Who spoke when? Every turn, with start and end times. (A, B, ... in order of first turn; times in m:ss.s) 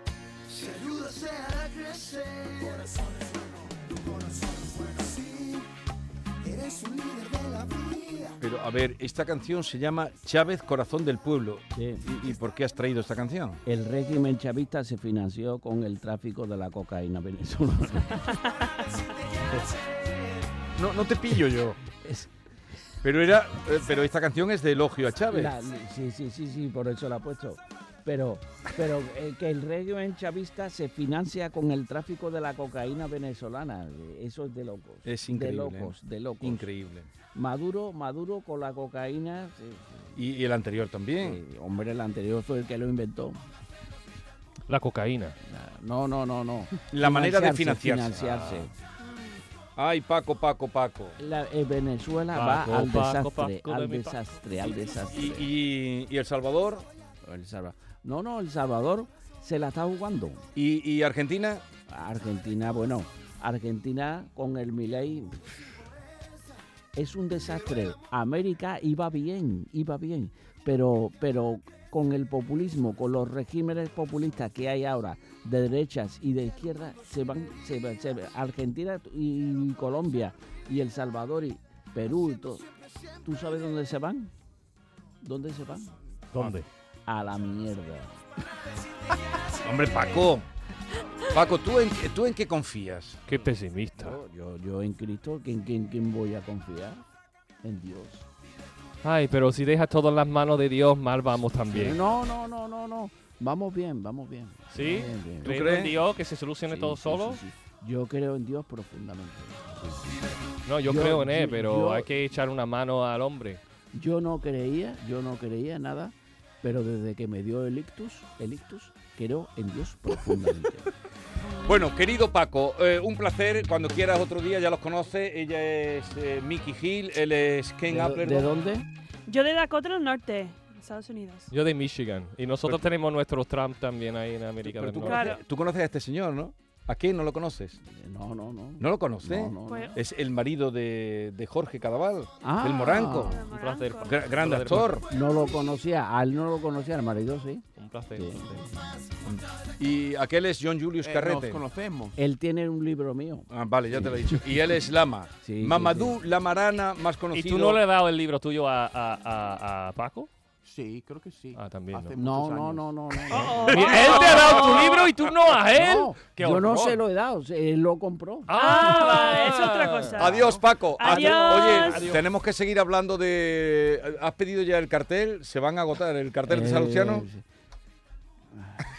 0:00.5-0:05.6 A
0:06.4-0:08.4 A
0:08.4-0:13.6 B
0:11.8-0:12.2 C
0:13.7-0:18.4 C
0:18.3-0:19.1 D
0:20.8-0:21.8 B
0:22.0-0:22.3 C
0:23.0-0:25.6 B
0:25.3-0:36.7 C
0:35.0-0:37.1 B
0:37.3-0:40.1 C
0:40.2-0:41.4 B
0:41.2-0:43.4 C
0:44.7-0:45.4 E
0:45.5-0:48.7 C
0:46.9-0:48.2 B
0:48.2-0:48.7 E
0:49.0-0:49.4 D
0:49.8-0:51.2 B
0:51.2-0:55.5 C
0:52.3-0:54.2 E
0:55.1-0:56.9 B
0:57.2-1:00.4 C
1:00.6-1:01.6 B
1:01.9-1:05.5 C
1:07.0-1:22.6 C
1:23.2-1:24.3 C
1:25.2-1:26.0 C
1:26.3-1:26.7 E
1:27.1-1:28.1 C
1:29.6-1:30.5 B
1:31.3-1:33.2 B
1:33.3-1:34.2 E
1:34.0-1:37.0 C
1:37.6-1:38.3 C
1:39.0-1:42.0 E
1:41.7-1:45.7 C
1:44.7-1:47.4 E
1:45.4-1:46.0 B
1:46.7-1:50.2 C
1:50.6-1:53.6 E
1:50.8-1:52.1 C
1:53.9-2:00.9 C
2:01.6-2:08.5 B
2:07.9-2:08.9 C
2:09.3-2:11.5 D
2:11.5-2:15.3 E
2:12.6-2:12.9 B
2:14.6-2:17.8 B
2:15.0-2:15.4 D
2:17.9-2:19.9 C
2:18.8-2:23.4 B
2:19.7-2:20.0 D
2:22.4-2:23.4 C
2:23.2-2:24.2 D
2:23.5-2:25.0 E
2:24.0-2:25.0 B
2:25.0-2:28.6 C
2:27.8-2:28.6 E
2:29.2-2:31.6 B
2:31.0-2:32.2 A
2:32.2-2:34.4 C
2:33.5-2:37.8 B
2:35.4-2:36.2 C
2:37.3-2:40.3 E
2:40.6-2:43.5 A
2:41.5-2:42.1 E
2:42.2-2:43.9 C
2:43.3-2:47.0 E
2:43.3-2:45.1 D
2:43.7-2:44.1 B
2:44.2-2:44.9 A
2:45.7-2:46.2 A
2:46.4-2:48.6 C
2:48.5-2:52.2 E
2:48.6-2:50.4 D
2:50.2-2:57.3 B
2:51.0-2:52.1 D
2:56.5-2:57.4 C